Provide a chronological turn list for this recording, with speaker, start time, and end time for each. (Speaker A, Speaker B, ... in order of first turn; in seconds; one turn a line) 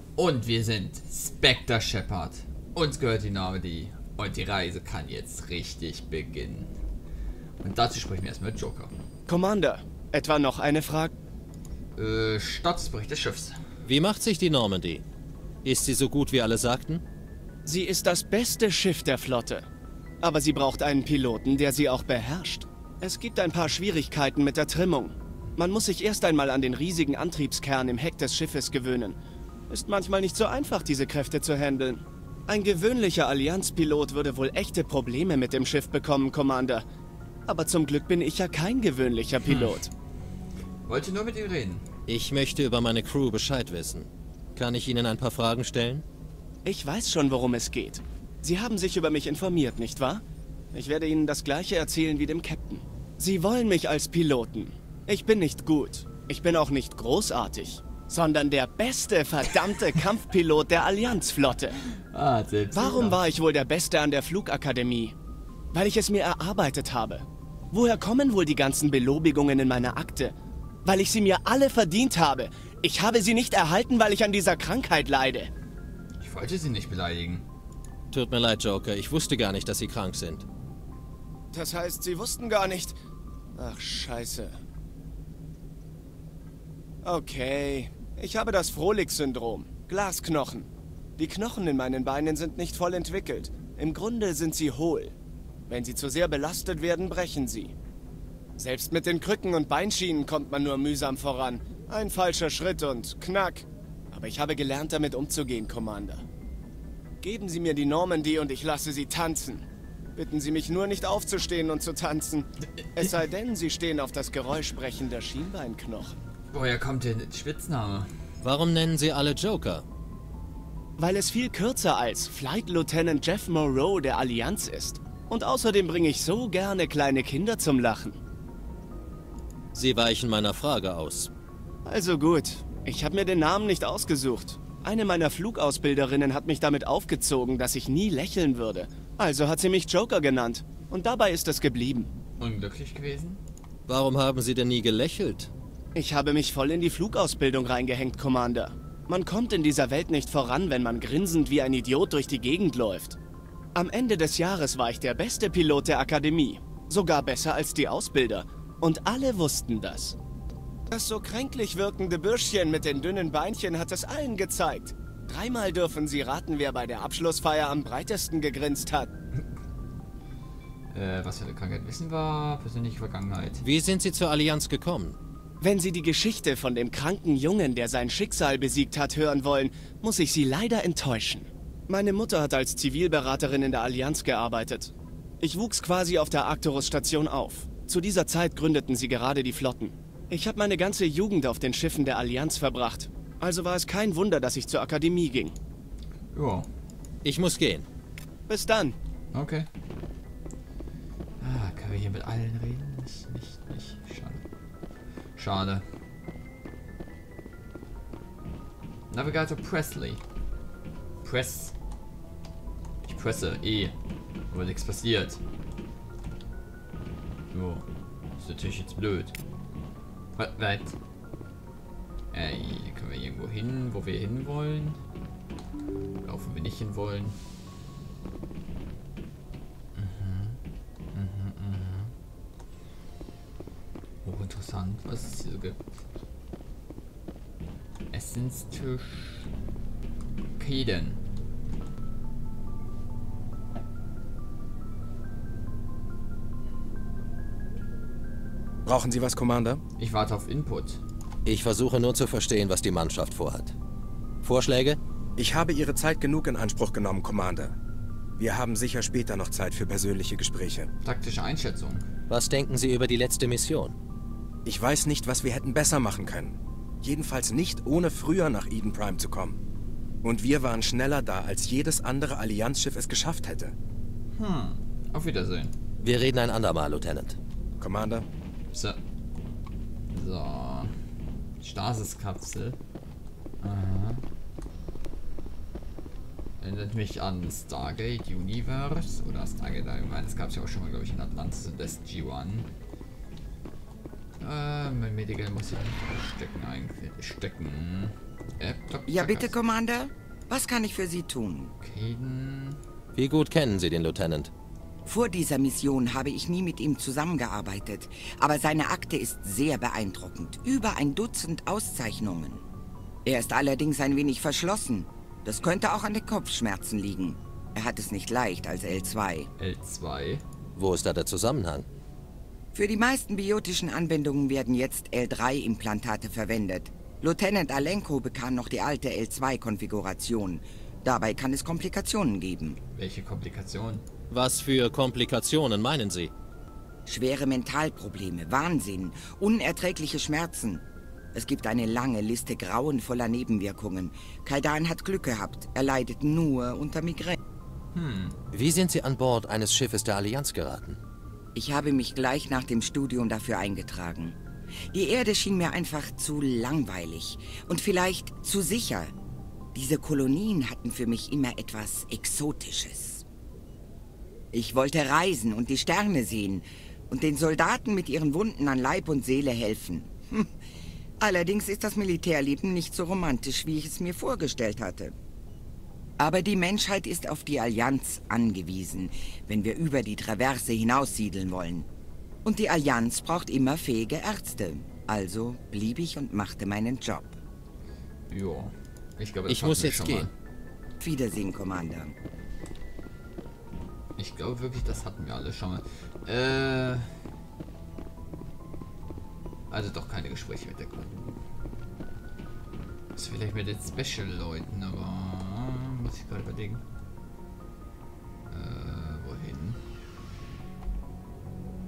Speaker A: 0.2-6.7
Speaker A: 7.6-8.9
Speaker B: 9.3-11.1
Speaker A: 12.0-13.6
Speaker C: 13.8-15.0
Speaker C: 15.6-17.0
Speaker B: 17.6-19.6
Speaker B: 20.2-29.2
Speaker B: 29.7-36.9
Speaker B: 37.5-39.9
Speaker A: 39.4-39.8
Speaker A: 40.9-41.8
Speaker C: 42.1-46.0
Speaker B: 46.6-50.2
Speaker B: 50.7-61.8
Speaker A: 62.1-63.2
Speaker B: 62.7-65.2
Speaker B: 65.7-70.3
Speaker B: 70.8-75.5
Speaker A: 76.2-77.4
Speaker C: 78.1-80.5
Speaker B: 81.5-83.0
Speaker B: 83.6-84.5
Speaker B: 87.0-95.1
Speaker B: 95.7-97.7
Speaker B: 98.6-106.2
Speaker B: 107.2-109.7
Speaker B: 110.2-116.2
Speaker A: 116.5-118.1
Speaker C: 118.4-119.8
Speaker B: 121.0-128.2
Speaker C: 129.7-131.3
Speaker B: 131.9-142.1
Speaker A: 142.4-143.4
Speaker C: 143.9-145.5
Speaker B: 145.9-153.2
Speaker B: 153.8-160.2
Speaker B: 160.9-169.1
Speaker A: 170.9-173.6
Speaker C: 173.6-175.2
Speaker B: 175.6-195.6
Speaker A: 196.3-196.7
Speaker C: 197.2-197.9
Speaker B: 198.5-199.0
Speaker A: 199.3-199.7
Speaker A: 201.4-204.4
Speaker A: 205.4-205.9
Speaker A: 209.1-210.2
Speaker A: 211.2-211.8
Speaker A: 213.1-213.9
Speaker A: 214.5-215.4
Speaker A: 217.5-217.9
Speaker A: 218.4-219.3
Speaker A: 220.4-221.0
Speaker A: 222.3-225.0
Speaker A: 226.2-227.4
Speaker A: 229.9-230.6
Speaker A: 231.1-232.1
Speaker A: 234.2-235.8
Speaker A: 238.1-239.5
Speaker A: 240.6-241.2
Speaker D: 248.9-249.8
Speaker A: 250.0-251.0
Speaker C: 251.4-253.8
Speaker C: 254.4-255.0
Speaker D: 255.4-257.7
Speaker D: 258.4-260.9
Speaker A: 261.0-262.1
Speaker C: 262.3-263.9
Speaker D: 264.7-269.6
Speaker D: 270.2-273.7
Speaker A: 274.4-275.7
Speaker C: 276.0-277.4
Speaker D: 277.8-278.3
Speaker A: 278.7-279.0
Speaker A: 280.1-280.9
Speaker A: 281.6-282.8
Speaker A: 283.6-284.2
Speaker A: 286.6-292.7
Speaker A: 294.4-299.5
Speaker E: 299.1-301.7
Speaker A: 301.8-302.8
Speaker C: 303.1-304.5
Speaker E: 305.1-312.6
Speaker E: 313.2-319.5
Speaker A: 319.6-320.4
Speaker C: 320.8-321.9
Speaker E: 322.7-332.8
Speaker A: 332.9-334.0
Speaker C: 334.3-336.3
Speaker E: 337.1-340.8
Speaker E: 341.3-347.4
Speaker A: 347.9-348.4
Speaker C: 348.5-351.0
Speaker E: 351.6-354.4
Speaker E: 354.9-359.1
Speaker E: 359.8-363.2
Speaker E: 364.5-370.6
Speaker E: 371.2-375.1
Speaker E: 376.2-381.9
Speaker E: 382.4-387.4
Speaker A: 388.3-390.3
Speaker C: 389.5-390.3
Speaker E: 391.0-392.1
Speaker A: 394.2-397.1
Speaker A: 399.7-401.4
Speaker A: 403.1-406.8
Speaker A: 408.5-409.8